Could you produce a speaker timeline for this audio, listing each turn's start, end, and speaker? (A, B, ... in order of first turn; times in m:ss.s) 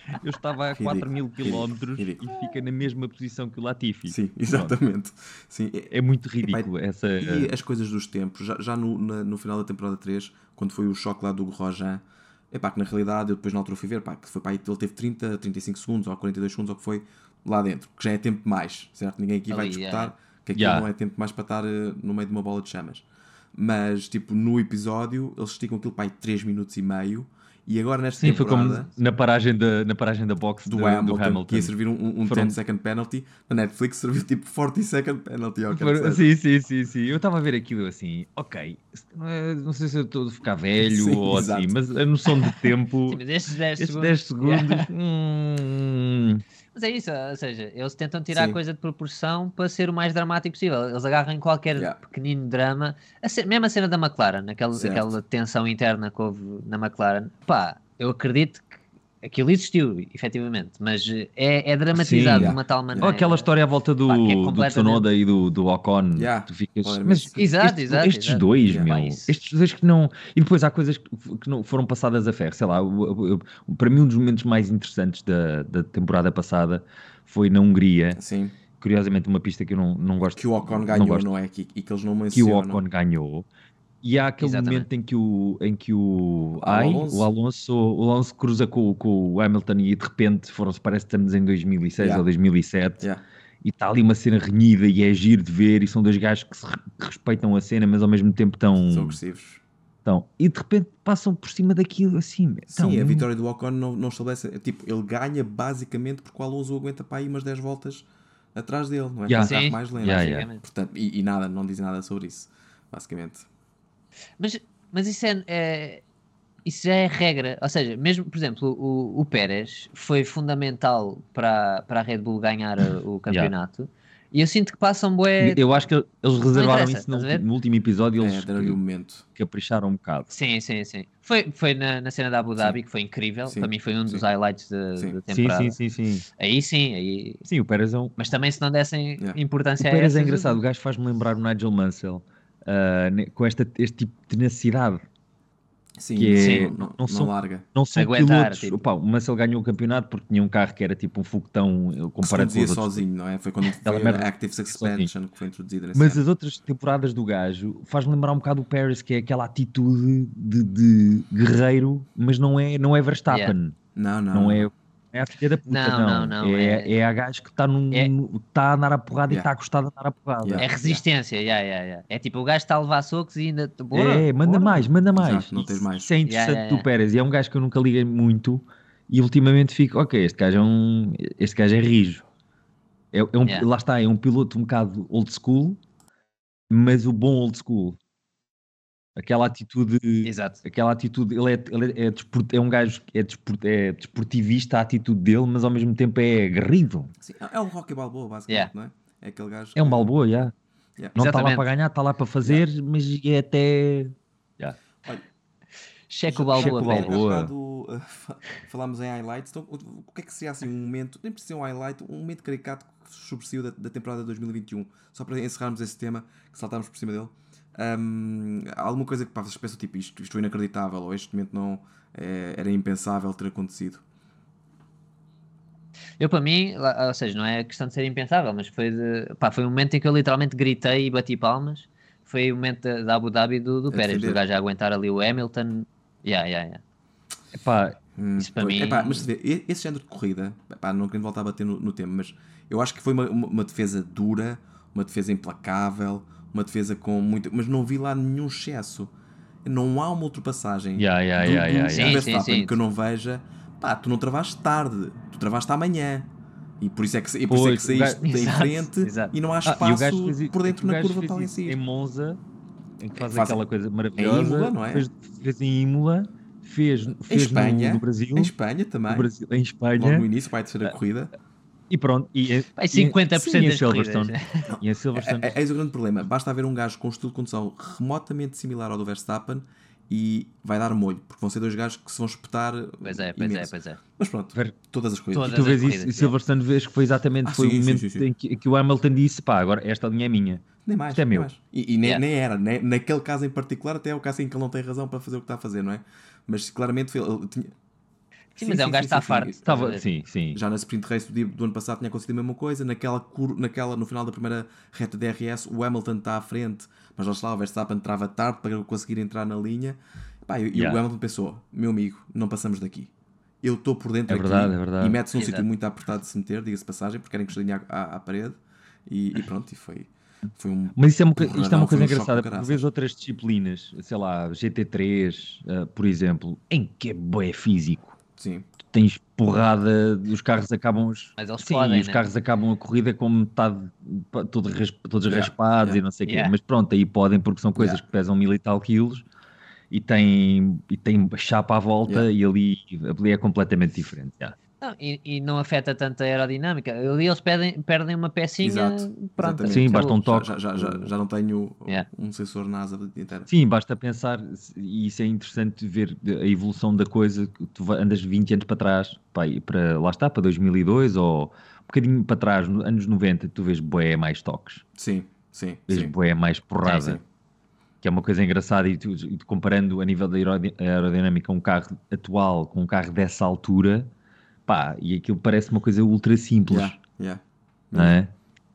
0:00.2-0:04.8 A
0:00.7-0:02.3 B
0:04.1-0:05.9 B
0:05.9-0:07.5 A
0:06.4-0:28.9 B
0:19.5-0:20.1 C
0:20.6-0:20.9 A
0:28.2-0:31.7 A
0:30.7-0:36.3 B
0:32.2-0:32.6 A
0:35.7-0:43.2 A
0:40.8-0:41.8 B
0:43.1-0:44.9 C
0:43.8-0:46.4 A
0:46.7-1:03.5 C
0:48.3-0:48.6 B
0:54.8-0:55.1 B
1:01.9-1:18.2 A
1:02.3-1:03.1 B
1:04.1-1:05.0 C
1:06.2-1:07.4 B
1:07.4-1:09.4 C
1:18.2-1:18.6 B
1:18.8-1:21.3 A
1:20.4-1:22.8 B
1:22.3-1:23.5 A
1:24.0-1:33.0 A
1:24.4-1:24.9 C
1:26.6-1:27.3 B
1:32.0-1:32.3 B
1:33.6-1:39.2 A
1:38.8-1:39.6 B
1:40.0-1:43.3 A
1:42.7-1:53.5 B
1:49.3-1:50.5 A
1:49.4-1:50.6 C
1:54.4-1:56.0 C
1:56.6-2:05.7 C
2:05.4-2:08.8 A
2:06.5-2:07.5 C
2:08.2-2:09.2 B
2:09.4-2:10.3 A
2:10.3-2:15.8 C
2:13.5-2:14.2 B
2:15.3-2:16.2 A
2:16.4-2:17.4 C
2:17.5-2:18.1 A
2:18.2-2:20.6 C
2:19.8-2:25.0 A
2:26.0-2:27.7 B
2:26.2-2:33.0 A
2:26.4-2:26.7 C
2:27.9-2:28.8 C
2:32.2-2:36.2 B
2:33.8-2:35.1 A
2:35.9-2:43.8 A
2:43.3-2:43.5 C
2:44.0-2:44.7 B
2:44.3-2:50.7 A
2:45.7-2:46.9 C
2:50.4-2:51.0 B
2:50.6-2:54.8 C
2:53.9-3:02.2 A
2:55.0-2:56.1 B
2:56.3-2:56.9 C
3:03.1-3:05.8 A
3:06.7-3:08.0 A
3:09.2-3:17.1 A
3:10.2-3:10.6 C
3:17.2-3:20.1 B
3:19.8-3:20.5 A
3:21.2-3:21.7 C
3:21.2-3:24.8 A
3:26.1-3:27.2 C
3:26.3-3:44.0 B
3:26.5-3:27.5 A
3:46.2-3:56.8 C
3:53.9-3:54.4 B
3:57.5-3:58.0 A
3:58.2-4:09.1 B
3:58.4-3:59.3 C
4:09.6-4:16.3 B
4:11.0-4:12.2 A
4:11.9-4:12.8 C
4:16.8-4:21.8 B
4:17.5-4:18.2 A
4:18.2-4:19.3 C
4:19.6-4:22.4 A
4:23.0-4:28.5 A
4:23.2-4:23.6 B
4:24.2-4:25.1 B
4:27.2-4:29.3 B
4:29.1-4:30.3 A
4:30.0-4:31.3 B
4:31.9-4:35.6 A
4:32.8-4:34.7 C
4:34.7-4:45.8 B
4:43.0-4:44.0 C
4:45.3-4:46.3 C
4:45.5-4:51.5 A
4:47.4-4:48.3 B
4:50.8-4:57.7 B
4:58.6-5:00.0 C
4:58.6-4:59.7 B
4:59.6-5:00.6 A
5:00.5-5:13.1 B
5:10.7-5:11.0 A
5:13.6-5:22.9 B
5:14.3-5:15.2 A
5:15.3-5:15.7 C
5:21.0-5:28.2 A
5:28.4-5:28.7 B
5:28.9-5:39.2 A
5:31.4-5:32.2 C
5:35.3-5:36.0 B
5:36.3-5:36.5 C
5:37.8-5:38.0 B
5:39.9-5:44.6 A
5:44.8-5:50.1 C
5:48.6-5:53.5 B
5:49.7-5:50.5 A
5:53.5-6:04.8 A
6:05.0-6:06.1 B
6:05.9-6:07.2 A
6:06.9-6:07.2 B
6:08.0-6:14.1 A
6:14.7-6:17.0 A
6:16.7-6:18.2 B
6:18.0-6:18.3 A